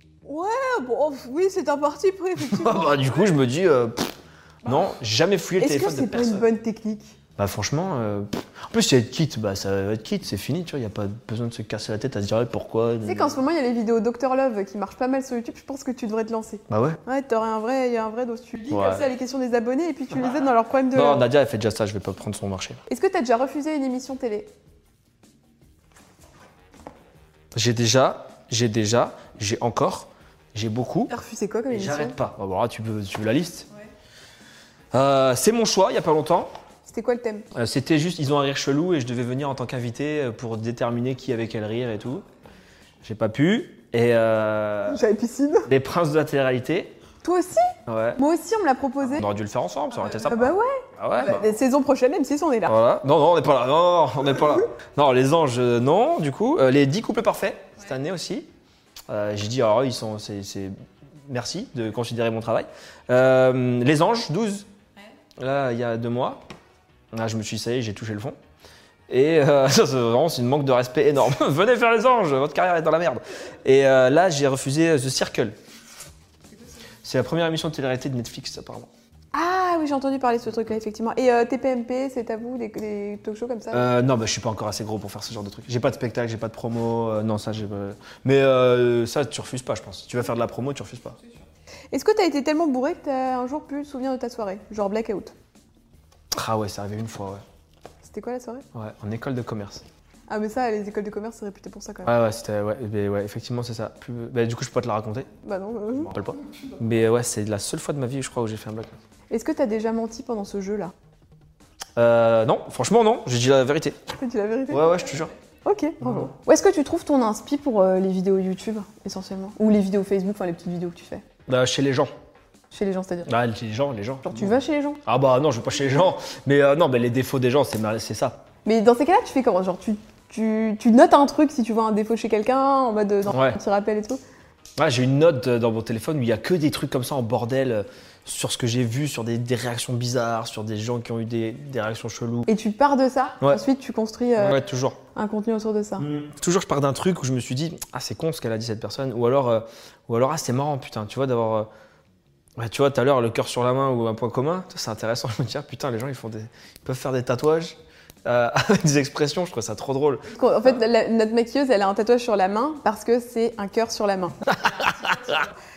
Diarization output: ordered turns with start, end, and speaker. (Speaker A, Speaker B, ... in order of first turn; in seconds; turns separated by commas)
Speaker A: 0.3-3.2, Speaker B: 2.4-6.5, Speaker A: 5.6-7.2, Speaker B: 7.4-13.4, Speaker A: 13.0-21.2, Speaker B: 16.7-17.0, Speaker B: 18.7-19.1, Speaker B: 20.9-22.8, Speaker A: 22.9-24.5, Speaker B: 27.5-31.1, Speaker A: 31.1-32.1, Speaker B: 31.7-33.7, Speaker B: 34.9-36.5, Speaker A: 36.9-37.5, Speaker B: 37.5-42.2, Speaker B: 43.0-45.0, Speaker A: 44.9-45.7, Speaker B: 45.7-47.0, Speaker A: 47.2-49.3, Speaker B: 47.9-48.2, Speaker B: 49.0-51.5, Speaker A: 50.2-52.8, Speaker B: 52.7-58.5, Speaker B: 59.1-60.7, Speaker B: 61.3-64.7, Speaker B: 65.4-66.4, Speaker B: 67.1-68.4, Speaker B: 69.1-75.5, Speaker B: 77.0-78.9, Speaker A: 79.3-83.8, Speaker B: 83.7-91.2, Speaker A: 91.9-95.3, Speaker B: 96.3-97.4, Speaker A: 98.0-98.7, Speaker B: 98.7-99.8, Speaker A: 100.3-102.2, Speaker B: 102.0-105.3, Speaker A: 105.4-106.1, Speaker B: 106.0-109.0, Speaker A: 109.3-110.9, Speaker B: 112.0-114.0, Speaker A: 114.2-114.9, Speaker B: 114.7-115.3, Speaker A: 115.6-121.2, Speaker B: 116.0-116.3, Speaker B: 121.5-122.1, Speaker A: 122.7-123.3, Speaker B: 123.3-124.5, Speaker A: 124.2-125.0, Speaker B: 125.1-128.4, Speaker A: 128.7-134.2, Speaker B: 133.3-133.6, Speaker B: 134.8-142.5, Speaker A: 142.5-144.6, Speaker B: 144.4-145.0, Speaker A: 145.1-146.1, Speaker B: 146.0-151.7, Speaker B: 152.6-160.3, Speaker A: 160.3-164.4, Speaker B: 164.5-165.5